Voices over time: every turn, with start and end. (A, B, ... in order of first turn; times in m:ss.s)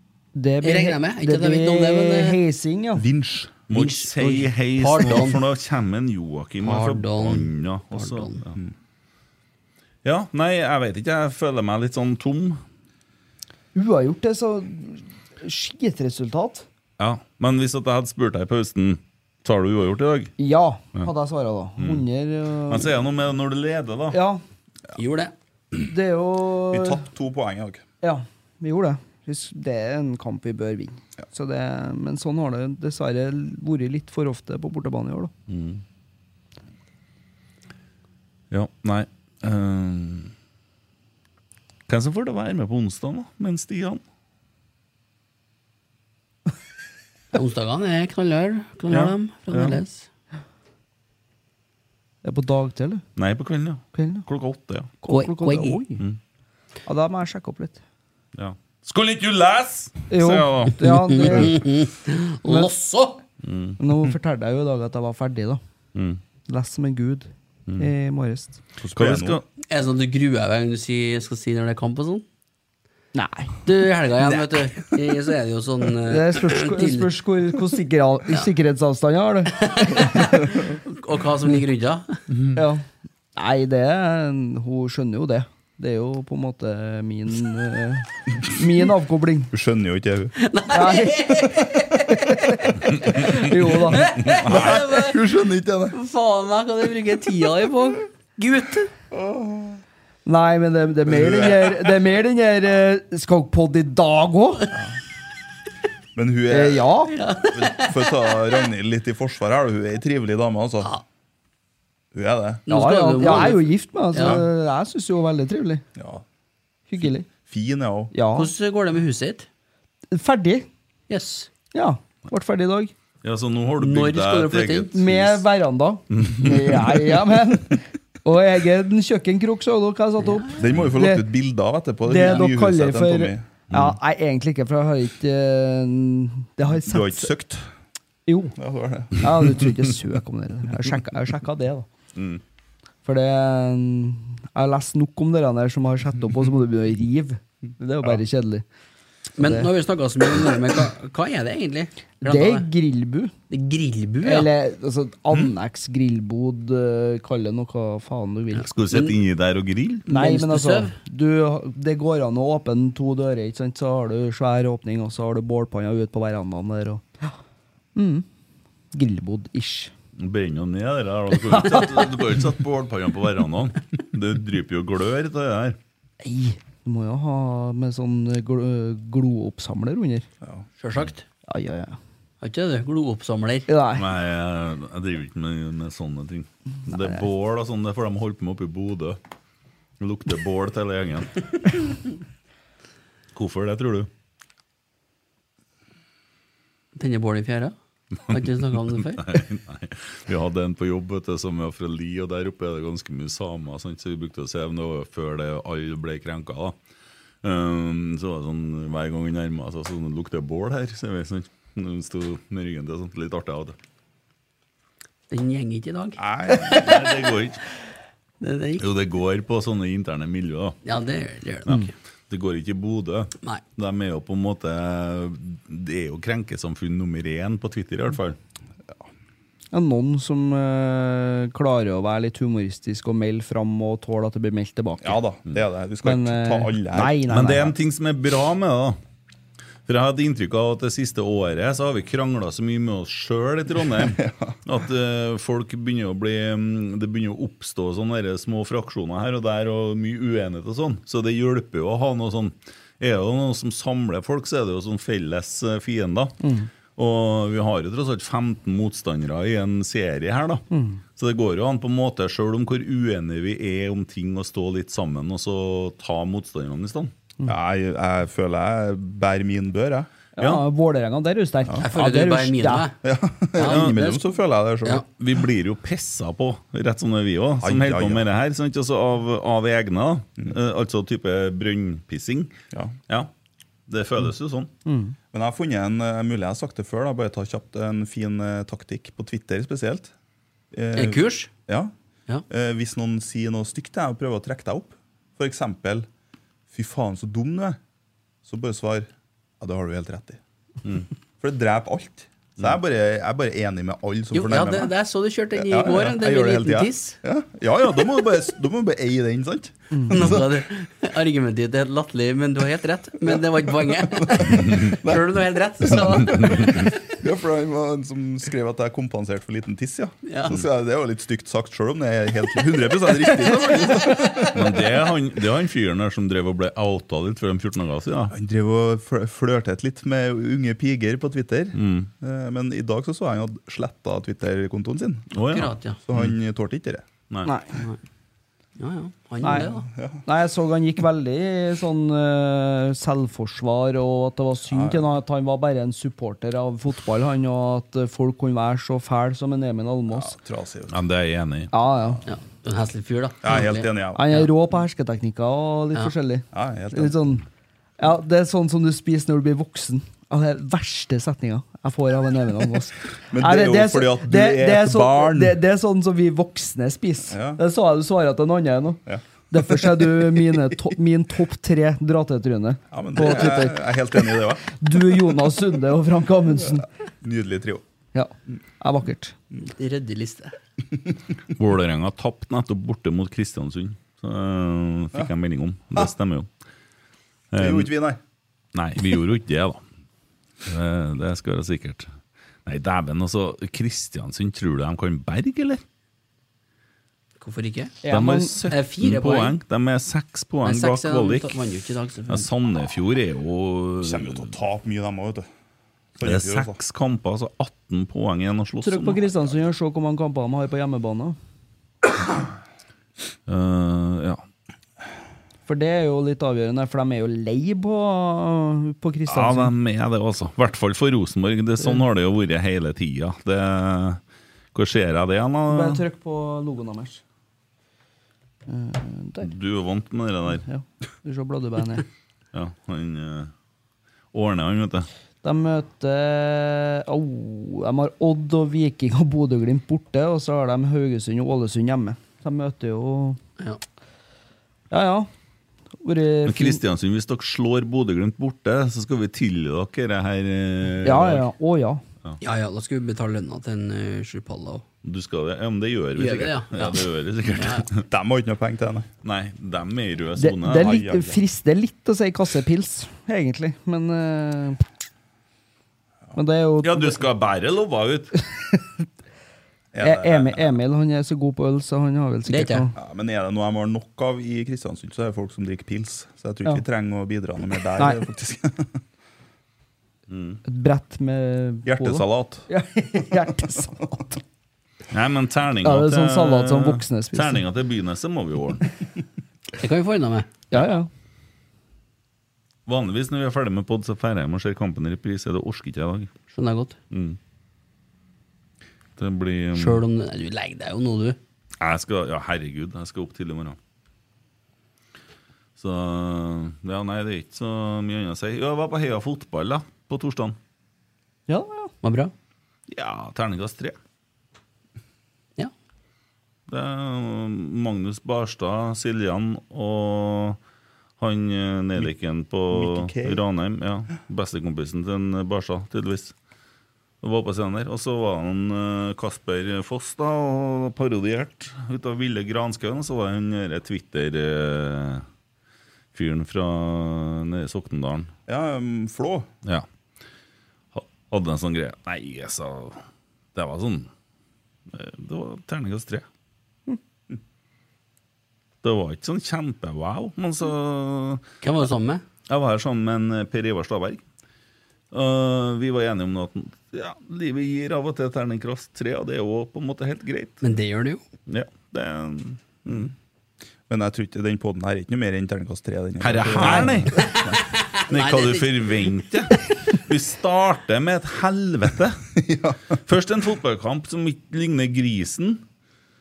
0:00.3-0:03.0 A
0:00.6-0:02.4 B
0:03.0-0:03.6 C
0:03.7-0:08.6 D
0:03.7-0:05.4 B
0:06.6-0:08.4 B
0:10.0-0:12.6 D
0:13.7-0:16.6 A
0:17.0-0:20.3 D
0:20.4-0:22.9 A
0:21.8-0:22.0 D
0:22.7-0:24.2 D
0:24.1-0:24.4 A
0:25.0-0:25.3 B
0:25.8-0:27.0 A
0:26.7-0:27.8 C
0:28.0-0:35.3 A
0:35.5-0:35.8 D
0:38.5-0:40.3 D
0:41.9-0:44.0 D
0:47.3-0:50.1 B
0:48.9-0:49.8 D
0:52.2-0:53.0 A
0:53.2-0:54.9 D
0:53.9-0:54.2 A
0:55.0-0:56.0 A
0:55.1-0:55.8 B
0:56.9-0:57.8 A
0:58.4-1:01.4 D
1:00.1-1:01.6 A
1:00.8-1:03.2 B
1:03.4-1:03.8 D
1:03.8-1:05.6 A
1:05.9-1:06.2 D
1:06.5-1:08.6 A
1:08.8-1:09.4 C
1:09.0-1:09.4 D
1:09.7-1:12.2 B
1:13.1-1:13.6 A
1:13.6-1:17.1 B
1:16.1-1:20.2 A
1:19.6-1:22.2 B
1:22.6-1:22.8 A
1:23.4-1:29.5 A
1:29.5-1:30.4 C
1:30.4-1:32.3 B
1:30.7-1:31.3 A
1:32.1-1:34.2 A
1:33.2-1:35.2 B
1:34.4-1:36.0 C
1:35.9-1:38.9 B
1:39.1-1:39.8 C
1:40.2-1:44.7 A
1:41.0-1:41.9 C
1:46.1-1:46.9 C
1:46.5-1:47.1 A
1:47.1-1:48.5 B
1:47.5-1:50.9 C
1:52.1-1:52.6 C
1:52.7-1:54.4 B
1:52.7-1:55.8 A
1:56.0-1:56.2 C
1:56.9-1:57.3 A
1:57.4-1:58.1 C
1:58.1-1:58.5 A
1:58.3-1:59.5 B
2:00.1-2:00.7 A
2:01.1-2:01.5 B
2:01.7-2:02.9 A
2:03.2-2:05.4 D
2:03.8-2:05.0 B
2:04.9-2:11.2 A
2:06.1-2:07.0 D
2:10.2-2:10.6 B
2:10.6-2:13.5 C
2:12.0-2:17.3 A
2:13.7-2:14.0 D
2:16.7-2:17.7 C
2:18.3-2:18.5 A
2:18.6-2:19.2 C
2:19.1-2:21.8 A
2:22.1-2:22.4 D
2:23.0-2:28.6 A
2:29.4-2:32.7 B
2:29.4-2:29.7 A
2:32.2-2:33.3 A
2:33.5-2:34.5 B
2:34.2-2:38.6 A
2:38.6-2:40.1 D
2:38.9-2:39.2 B
2:40.1-2:41.0 B
2:40.1-2:47.3 A
2:47.9-2:48.2 A
2:48.9-2:49.9 A
2:50.2-2:55.8 D
2:56.2-3:00.3 A
3:00.8-3:01.2 B
3:01.5-3:02.0 A
3:02.4-3:03.7 B
3:03.7-3:04.0 A
3:03.9-3:09.2 D
3:10.0-3:11.4 D
3:13.3-3:14.1 D
3:17.0-3:17.7 B
3:18.3-3:19.2 B
3:18.9-3:26.8 D
3:27.4-3:33.7 D
3:35.3-3:37.1 B
3:36.5-3:37.6 D
3:38.4-3:38.8 B
3:38.8-3:40.8 D
3:40.8-3:41.9 B
3:41.6-3:48.4 D
3:49.7-3:55.2 A
3:55.0-3:57.2 C
3:56.0-3:57.7 A
3:57.3-3:59.0 D
3:59.8-4:16.4 D
4:04.0-4:04.5 C
4:16.4-4:16.7 A
4:16.9-4:20.6 D
4:20.7-4:21.0 A
4:21.2-4:27.1 D
4:27.4-4:30.1 C
4:30.4-4:32.9 A
4:30.4-4:30.6 D
4:31.8-4:33.0 B
4:33.0-4:35.0 C
4:33.6-4:34.2 B
4:33.6-4:34.0 D
4:35.1-4:42.5 D
4:37.6-4:38.2 C
4:42.7-4:43.0 C
4:43.9-4:44.7 D
4:44.8-4:45.1 A
4:45.3-4:50.1 C
4:50.7-4:51.9 C
4:50.9-4:51.5 B
4:52.5-4:56.1 C
4:56.7-4:57.8 C
4:58.4-5:00.4 C
5:01.4-5:04.9 C
5:04.3-5:07.2 B
5:05.5-5:10.4 C
5:10.1-5:17.0 B
5:13.2-5:15.2 C
5:16.3-5:24.7 C
5:20.2-5:20.5 B
5:24.5-5:28.3 D
5:28.3-5:35.3 C
5:31.7-5:32.1 D
5:35.3-5:36.3 D
5:35.5-5:36.0 B
5:36.1-5:37.0 C
5:37.4-5:37.8 A
5:38.8-5:39.9 B
5:39.4-5:39.7 A
5:39.5-5:40.2 C
5:40.2-5:50.4 A
5:44.7-5:45.0 C
5:50.1-5:51.0 C
5:50.9-5:51.7 D
5:51.7-5:52.2 A
5:52.3-5:54.4 B
5:53.4-5:54.2 C
5:54.1-5:57.4 A
5:56.5-5:57.2 C
5:58.0-6:13.9 A
6:03.3-6:05.6 C
6:07.3-6:07.6 C
6:09.0-6:10.0 C
6:12.9-6:14.6 C
6:14.7-6:16.9 A
6:17.2-6:17.8 C
6:18.1-6:19.4 A
6:19.8-6:20.5 B
6:21.5-6:26.5 D
6:27.5-6:27.9 D
6:27.6-6:28.2 C
6:28.7-6:29.8 D
6:30.6-6:32.1 D
6:32.6-6:35.8 D
6:37.4-6:38.0 B
6:38.0-6:38.5 A
6:38.1-6:41.6 D
6:38.7-6:39.6 B
6:40.6-6:42.5 B
6:42.3-6:44.5 D
6:44.0-6:45.5 C
6:46.2-6:46.8 C
6:46.2-6:49.5 D
6:48.8-6:51.4 A
6:53.5-6:54.4 D
6:55.7-6:59.7 A
6:59.3-7:04.2 D
7:04.7-7:06.0 D
7:05.7-7:07.2 A
7:08.7-7:09.5 A
7:09.4-7:10.6 D
7:10.6-7:12.0 A
7:12.5-7:13.5 D
7:14.3-7:15.1 D
7:15.4-7:23.4 A
7:24.9-7:25.3 A
7:26.0-7:26.8 A
7:26.4-7:31.5 D
7:31.0-7:32.0 A
7:32.4-7:34.8 B
7:35.0-7:38.0 D
7:36.2-7:37.8 B
7:38.1-7:39.1 C
7:39.2-7:41.0 D
7:40.4-7:44.8 A
7:40.8-7:41.4 C
7:46.3-7:47.2 A
7:46.8-7:48.3 D
7:49.9-7:50.7 C
7:50.0-7:52.9 A
7:52.5-7:52.8 B
7:53.0-7:59.0 C
8:00.3-8:00.6 D
8:00.6-8:04.4 A
8:01.8-8:02.6 C
8:05.1-8:08.9 D
8:05.8-8:07.6 A
8:09.8-8:10.6 B
8:10.7-8:11.1 A
8:12.8-8:16.3 D
8:16.5-8:17.0 B
8:17.1-8:17.4 D
8:19.2-8:20.0 D
8:19.7-8:21.4 B
8:21.8-8:23.8 D
8:25.8-8:30.6 D
8:31.5-8:31.9 A
8:32.0-8:32.3 B
8:32.9-8:34.0 D
8:36.7-8:40.6 D
8:41.2-8:46.3 D
8:42.7-8:43.4 C
8:47.2-8:55.2 D
8:56.1-8:58.3 D
8:58.5-8:59.5 C
9:00.9-9:03.0 D
9:03.5-9:04.1 D
9:04.9-9:06.2 D
9:08.8-9:11.4 D
9:11.6-9:12.2 B
9:12.5-9:14.2 D
9:15.1-9:20.6 D
9:20.6-9:21.2 B
9:21.5-9:23.1 D
9:23.9-9:27.6 C
9:26.2-9:27.3 D
9:27.2-9:29.2 B
9:28.1-9:32.2 D
9:32.4-9:32.8 C
9:33.1-9:35.6 D